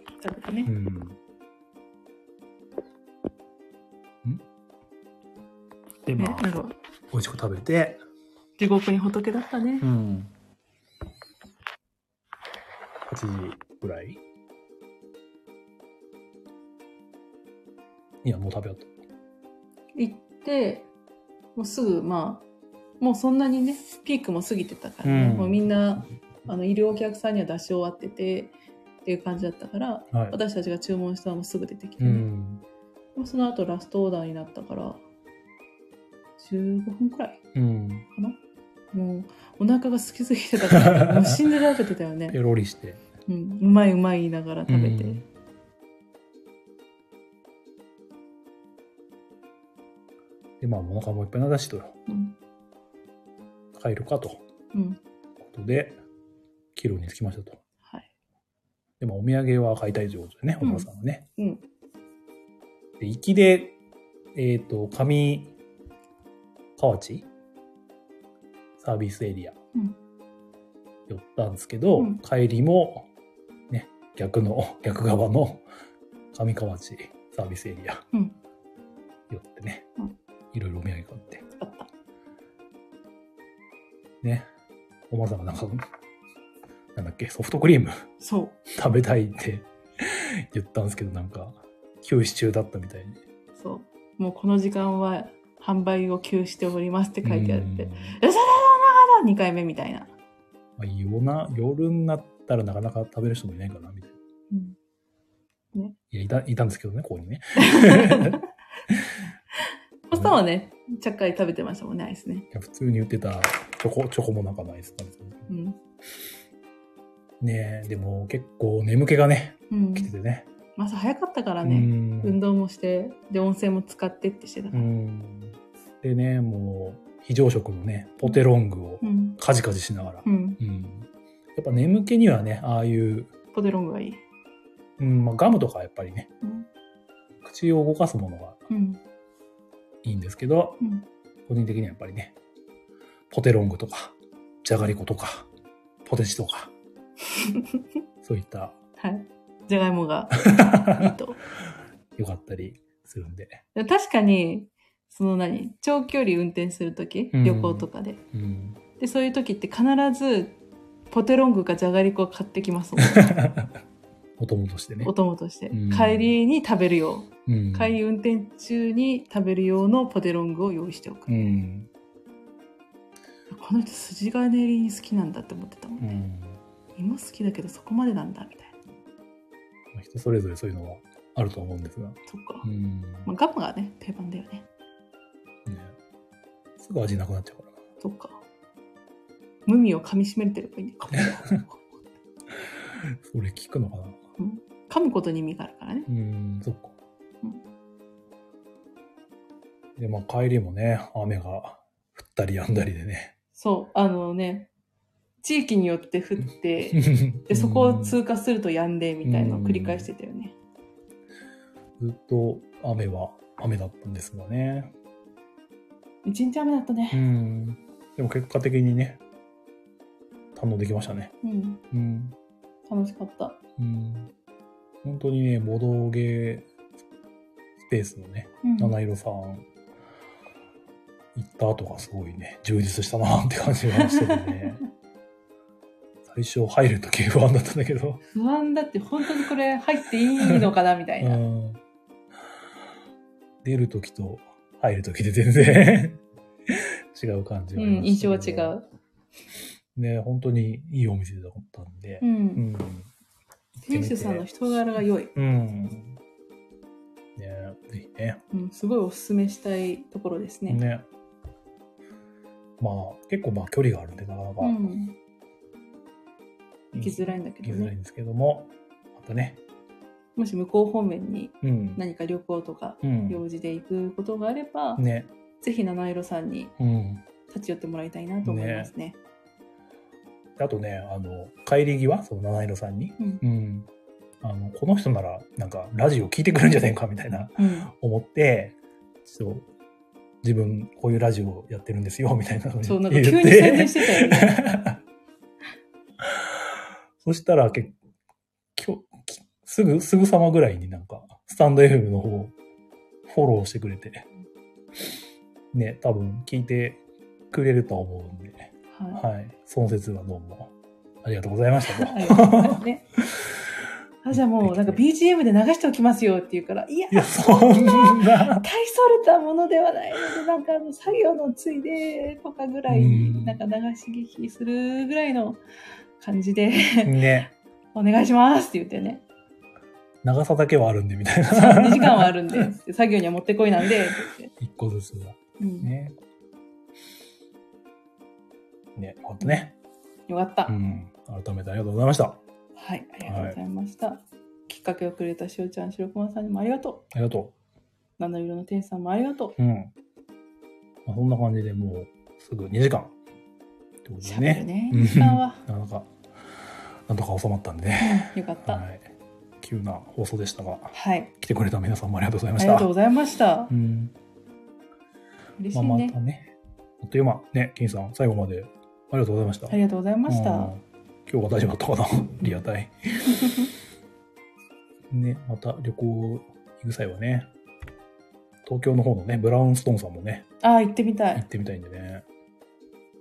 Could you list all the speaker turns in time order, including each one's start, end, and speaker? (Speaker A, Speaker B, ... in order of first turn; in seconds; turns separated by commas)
Speaker A: 0.2-0.7, Speaker B: 0.7-1.2, Speaker B: 6.1-6.5, Speaker A: 6.2-6.7, Speaker B: 7.1-8.0, Speaker A: 8.6-9.9, Speaker B: 9.8-10.3, Speaker B: 13.1-14.2, Speaker B: 18.2-18.9, Speaker A: 19.9-20.9, Speaker A: 21.6-22.4, Speaker A: 23.0-28.5, Speaker B: 25.0-25.6, Speaker A: 29.1-32.3, Speaker B: 30.1-30.4, Speaker B: 32.0-32.6, Speaker A: 33.2-35.0, Speaker A: 36.4-37.4, Speaker B: 37.5-38.1, Speaker A: 38.1-38.4, Speaker A: 38.9-42.4, Speaker B: 40.7-41.4, Speaker B: 42.3-43.0, Speaker A: 43.3-45.2, Speaker B: 44.7-45.2, Speaker B: 50.6-52.0, Speaker A: 52.1-52.4, Speaker B: 53.7-54.4, Speaker A: 54.7-55.0, Speaker B: 55.4-56.0, Speaker B: 56.7-57.6, Speaker B: 59.0-61.3, Speaker A: 60.6-61.6, Speaker B: 63.0-63.8, Speaker B: 64.3-65.5, Speaker B: 66.8-67.3, Speaker B: 68.8-69.6, Speaker B: 71.1-73.1, Speaker B: 73.7-75.7, Speaker B: 76.3-78.0, Speaker B: 79.3-79.9, Speaker B: 80.5-81.5, Speaker A: 81.6-81.9, Speaker B: 84.2-84.5, Speaker B: 85.1-85.9, Speaker B: 87.0-88.1, Speaker A: 88.2-88.6, Speaker B: 88.7-93.2, Speaker A: 93.6-100.1, Speaker B: 97.2-98.2, Speaker B: 100.8-104.2, Speaker A: 104.5-104.8, Speaker B: 106.1-109.1, Speaker A: 107.6-108.4, Speaker A: 109.6-112.5, Speaker B: 112.5-115.5, Speaker A: 115.5-115.8, Speaker B: 117.4-120.5, Speaker A: 119.7-120.1, Speaker A: 120.8-124.9, Speaker B: 121.6-122.4, Speaker B: 124.7-133.3, Speaker A: 129.0-129.4, Speaker A: 130.2-130.6, Speaker A: 133.5-134.2, Speaker B: 135.0-136.3, Speaker A: 136.4-136.7, Speaker B: 137.4-138.6, Speaker A: 138.7-139.0, Speaker B: 140.0-140.8, Speaker A: 140.8-141.1, Speaker B: 141.5-142.4, Speaker B: 143.3-145.5, Speaker B: 146.1-146.7, Speaker A: 147.4-147.8, Speaker B: 148.2-148.8, Speaker A: 149.0-151.4, Speaker B: 150.4-151.2, Speaker B: 152.2-153.6, Speaker A: 153.7-158.2, Speaker B: 157.3-158.8, Speaker A: 159.0-160.6, Speaker A: 161.1-163.3, Speaker B: 163.0-163.7, Speaker B: 164.4-165.1, Speaker A: 165.0-171.6, Speaker B: 165.7-166.3, Speaker B: 167.5-168.0, Speaker B: 171.3-171.9, Speaker A: 173.5-176.1, Speaker B: 176.0-176.6, Speaker A: 176.9-178.7, Speaker B: 179.9-183.3, Speaker A: 182.3-182.7, Speaker A: 183.3-184.7, Speaker B: 185.7-185.9, Speaker B: 186.8-187.7, Speaker A: 188.0-188.4, Speaker A: 189.7-192.0, Speaker B: 191.1-191.6, Speaker B: 193.0-194.2, Speaker A: 194.4-196.1, Speaker B: 196.1-196.9, Speaker B: 200.0-203.3, Speaker A: 203.6-204.7, Speaker A: 205.4-210.6, Speaker B: 206.9-208.2, Speaker B: 209.2-210.1, Speaker B: 212.0-214.9, Speaker A: 216.2-217.2, Speaker B: 217.1-219.2, Speaker B: 220.6-221.3, Speaker A: 221.4-221.8, Speaker B: 221.9-222.4, Speaker A: 222.9-223.6, Speaker B: 223.8-224.3, Speaker B: 225.0-226.7, Speaker B: 227.8-229.7, Speaker A: 228.6-228.9, Speaker B: 231.3-234.8, Speaker A: 233.9-234.8, Speaker B: 236.3-238.2, Speaker A: 238.3-241.4, Speaker B: 240.4-240.7, Speaker B: 241.2-241.8, Speaker B: 243.6-248.7, Speaker A: 247.8-248.9, Speaker B: 249.9-253.1, Speaker A: 252.2-252.7, Speaker B: 253.8-254.5, Speaker A: 253.8-255.3, Speaker B: 255.3-256.2, Speaker B: 257.4-258.4, Speaker A: 258.5-260.8, Speaker B: 260.7-261.1, Speaker B: 262.8-264.9, Speaker A: 264.6-265.2, Speaker B: 266.9-269.6, Speaker A: 267.0-267.9, Speaker A: 270.4-275.0, Speaker B: 271.6-272.0, Speaker B: 273.0-273.4, Speaker B: 275.0-275.3, Speaker A: 275.6-276.7, Speaker B: 276.8-277.2, Speaker A: 277.5-279.2, Speaker B: 278.4-278.9, Speaker B: 280.6-283.9, Speaker B: 284.4-289.7, Speaker A: 287.6-287.9, Speaker B: 290.4-295.0, Speaker A: 292.8-294.6, Speaker B: 297.2-297.9, Speaker B: 298.8-302.5, Speaker B: 303.3-304.3, Speaker B: 305.7-310.7, Speaker A: 308.9-309.2, Speaker B: 311.2-313.5, Speaker A: 311.9-313.1, Speaker A: 314.2-325.6, Speaker B: 314.3-315.0, Speaker B: 317.1-318.7, Speaker B: 322.9-323.6, Speaker A: 326.2-327.3, Speaker B: 327.0-327.5, Speaker A: 327.9-329.2, Speaker B: 330.2-332.7, Speaker A: 331.5-334.5, Speaker B: 334.6-336.2, Speaker A: 335.6-335.9, Speaker B: 338.9-339.7, Speaker A: 340.3-340.7, Speaker B: 340.7-342.4, Speaker A: 342.8-347.1, Speaker B: 343.3-343.6, Speaker B: 347.1-347.5, Speaker A: 348.2-349.6, Speaker B: 349.6-349.9, Speaker B: 351.1-353.1, Speaker B: 354.1-356.1, Speaker A: 354.2-355.6, Speaker B: 357.1-359.1, Speaker A: 358.0-358.8, Speaker B: 359.6-362.9, Speaker A: 360.9-361.3, Speaker A: 362.6-363.7, Speaker B: 363.7-364.1, Speaker A: 365.6-366.2, Speaker B: 365.7-373.5, Speaker A: 369.7-370.7, Speaker A: 373.3-373.7, Speaker B: 375.1-377.5, Speaker B: 378.6-380.5, Speaker A: 380.6-381.4, Speaker B: 381.4-382.2